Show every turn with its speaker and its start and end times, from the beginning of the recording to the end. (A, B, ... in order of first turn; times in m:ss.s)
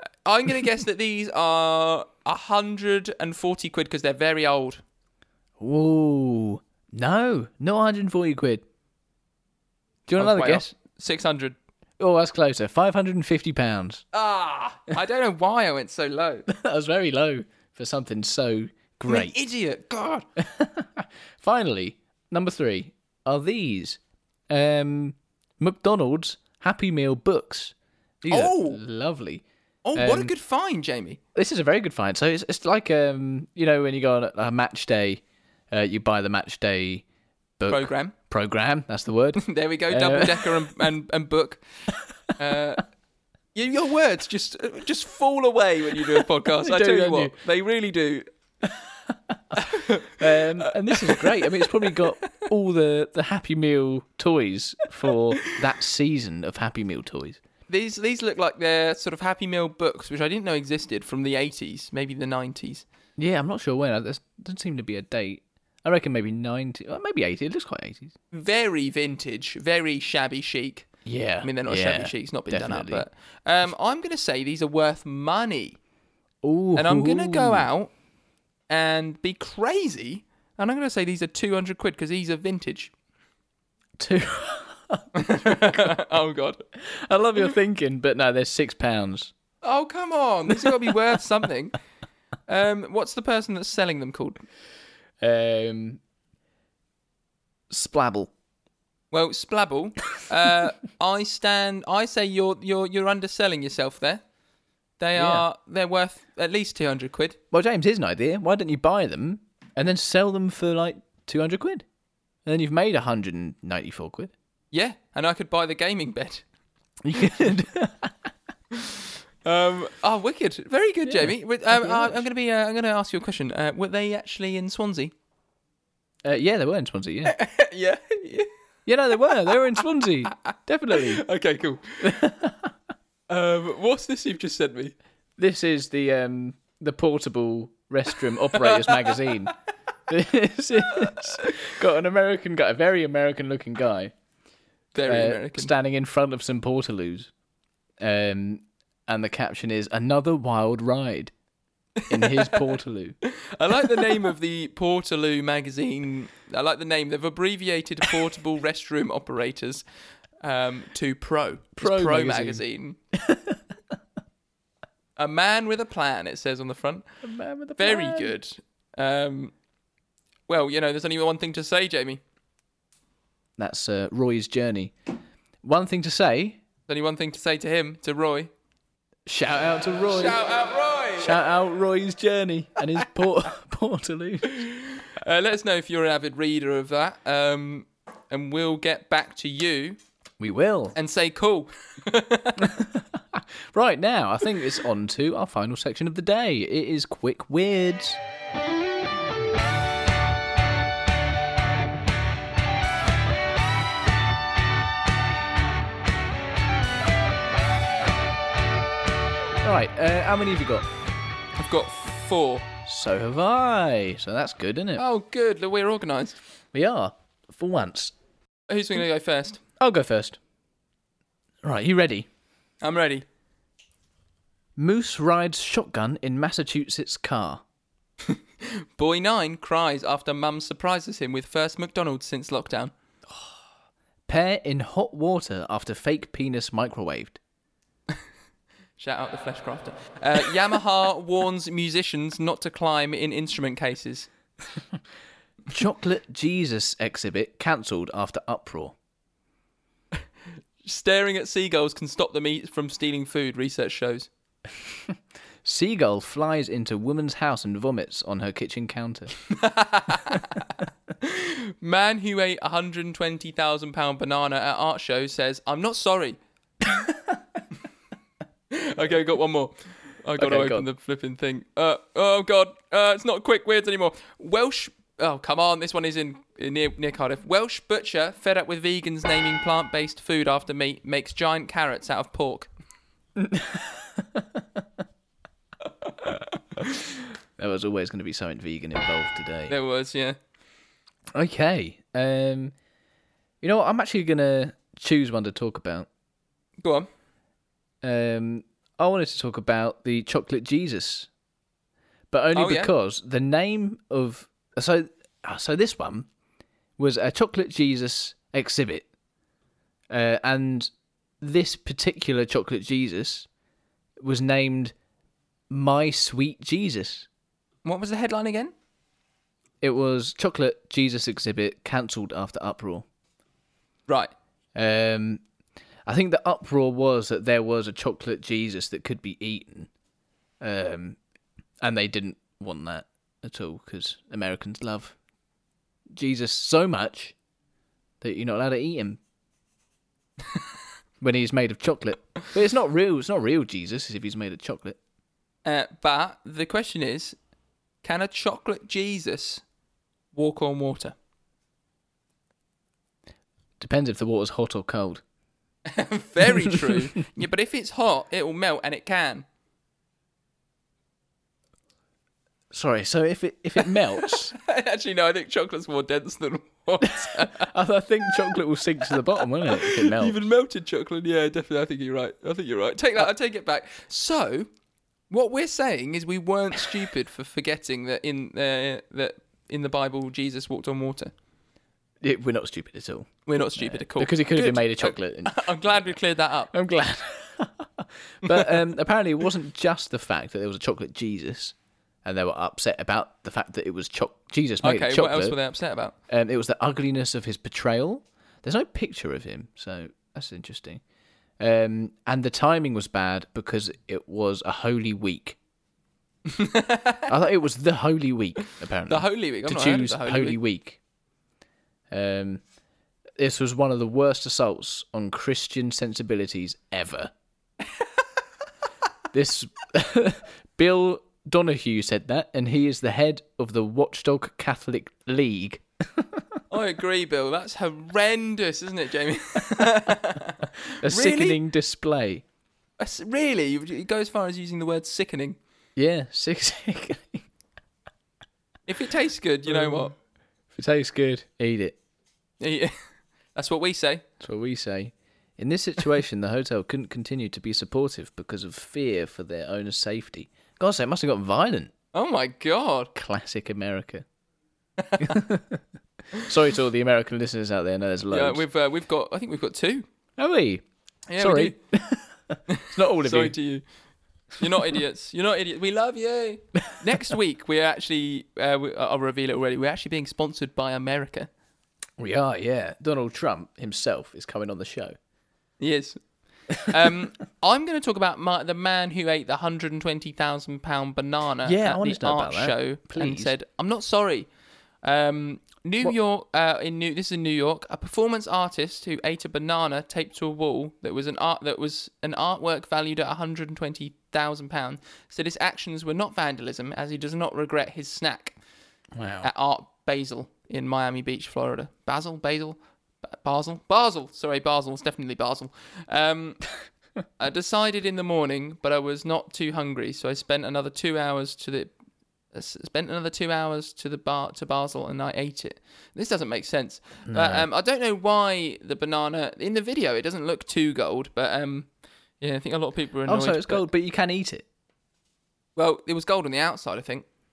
0:00.2-0:04.8 A
0:05.6-0:08.6 B
0:10.1-0:10.7 B
0:10.2-0:11.6 A
0:12.0-0:14.0 B
0:14.1-0:16.5 A
0:16.5-0:19.4 B
0:19.1-0:20.3 A
0:20.4-0:24.0 B
0:24.5-0:29.4 B
0:28.3-0:28.8 A
0:29.8-0:31.2 A
0:30.0-0:30.3 B
0:31.4-0:37.0 B
0:37.6-0:40.7 B
0:37.7-0:38.1 A
0:39.4-0:41.6 A
0:42.4-0:42.8 A
0:43.6-0:48.3 A
0:46.5-0:47.4 B
0:49.1-0:57.4 B
0:49.6-0:52.1 A
0:57.7-1:02.8 A
1:03.2-1:08.2 B
1:08.3-1:10.9 A
1:11.0-1:13.1 B
1:11.4-1:15.8 A
1:16.4-1:17.7 B
1:16.8-1:17.9 A
1:18.7-1:22.9 A
1:24.0-1:25.6 B
1:25.2-1:26.6 A
1:26.8-1:29.3 B
1:29.6-1:31.8 A
1:32.5-1:34.4 A
1:35.2-1:36.0 B
1:37.7-1:38.3 B
1:39.1-1:44.2 A
1:45.0-1:47.4 A
1:45.2-1:45.4 B
1:47.5-1:51.8 B
1:52.5-1:54.3 B
1:54.7-1:56.4 A
1:57.0-1:58.1 B
1:58.7-2:05.1 A
2:01.0-2:02.2 B
2:06.2-2:07.4 B
2:07.2-2:08.5 A
2:08.9-2:11.2 B
2:09.5-2:10.4 A
2:10.9-2:12.2 A
2:12.0-2:12.7 B
2:13.3-2:15.0 A
2:15.4-2:19.6 B
2:18.6-2:19.4 A
2:20.1-2:24.1 B
2:21.0-2:21.5 A
2:24.9-2:25.7 A
2:25.1-2:27.3 B
2:28.0-2:31.3 B
2:32.0-2:32.6 A
2:32.1-2:33.2 B
2:33.2-2:39.8 A
2:40.4-2:43.0 A
2:41.8-2:42.6 B
2:43.1-2:43.6 B
2:45.2-2:47.0 A
2:47.2-2:48.4 B
2:47.8-2:49.5 A
2:50.5-2:52.2 A
2:53.6-2:54.9 B
2:55.6-2:56.6 B
2:56.9-2:58.5 A
2:59.3-3:00.4 B
3:00.1-3:01.4 A
3:01.2-3:04.7 B
3:04.5-3:10.0 A
3:10.4-3:11.0 B
3:11.0-3:12.8 A
3:12.6-3:18.2 B
3:29.6-3:30.9 B
3:31.6-3:32.7 A
3:32.8-3:35.0 B
3:35.0-3:36.4 A
3:36.7-3:38.1 B
3:38.7-3:39.6 A
3:39.8-3:40.4 B
3:41.6-3:42.3 B
3:42.8-3:43.2 A
3:44.8-3:47.6 B
3:48.2-3:52.9 A
3:54.3-3:57.4 B
3:59.0-4:04.3 A
4:05.7-4:09.0 B
4:10.8-4:14.3 A
4:15.6-4:19.4 B
4:19.4-4:26.4 A
4:28.7-4:42.7 A
4:30.4-4:30.9 B
4:43.4-4:44.6 B
4:47.6-4:49.8 B
4:49.7-4:50.4 A
4:51.4-4:52.7 B
4:53.6-4:56.1 B
4:56.8-4:57.1 A
4:58.0-5:01.3 B
5:02.3-5:06.3 B
5:02.5-5:02.9 A
5:07.0-5:09.1 B
5:10.1-5:13.5 B
5:14.2-5:14.9 B
5:15.7-5:17.3 B
5:17.8-5:18.7 A
5:19.8-5:23.1 B
5:24.8-5:25.4 B
5:26.1-5:29.9 B
5:30.6-5:31.2 B
5:31.8-5:35.2 B
5:36.2-5:37.4 B
5:38.2-5:39.2 B
5:41.2-5:45.0 B
5:45.6-5:47.4 A
5:48.0-5:49.6 A
5:50.3-5:51.2 A
5:53.8-5:55.2 B
5:55.9-5:59.5 A
6:02.7-6:04.5 B
6:04.3-6:07.7 A
6:07.0-6:10.4 B
6:09.1-6:14.7 A
6:15.3-6:21.3 A
6:22.2-6:26.0 B
6:23.5-6:26.7 A
6:26.7-6:35.6 B
6:28.4-6:28.8 A
6:34.8-6:36.2 A
6:36.3-6:41.0 B
6:41.6-6:45.6 B
6:46.5-6:47.3 A
6:47.3-6:51.0 B
6:49.1-6:50.6 A
6:52.1-6:52.6 B
6:53.4-6:57.3 B
6:59.3-7:06.4 B
7:06.7-7:11.6 A
7:11.0-7:12.4 B
7:13.0-7:15.6 A
7:16.0-7:17.5 B
7:18.9-7:20.1 A
7:19.7-7:20.1 B
7:20.7-7:22.0 B
7:22.6-7:22.9 A
7:23.6-7:24.2 A
7:24.4-7:31.9 B
7:32.1-7:33.1 A
7:33.2-7:34.2 B
7:35.0-7:35.4 A
7:35.2-7:38.6 B
7:38.3-7:40.1 A
7:40.4-7:40.8 B
7:41.3-7:41.8 A
7:41.4-7:43.6 B
7:42.7-7:43.8 A
7:44.6-7:51.5 A
7:52.2-7:55.2 B
7:55.8-7:56.2 A
7:56.8-8:04.5 A
8:01.6-8:03.5 B
8:05.0-8:18.6 A
8:19.2-8:19.5 B
8:19.4-8:26.6 A
8:27.4-8:31.9 A
8:32.5-8:41.9 A
8:37.3-8:37.7 B
8:42.4-8:43.8 A
8:43.3-8:44.6 B
8:45.8-8:47.3 A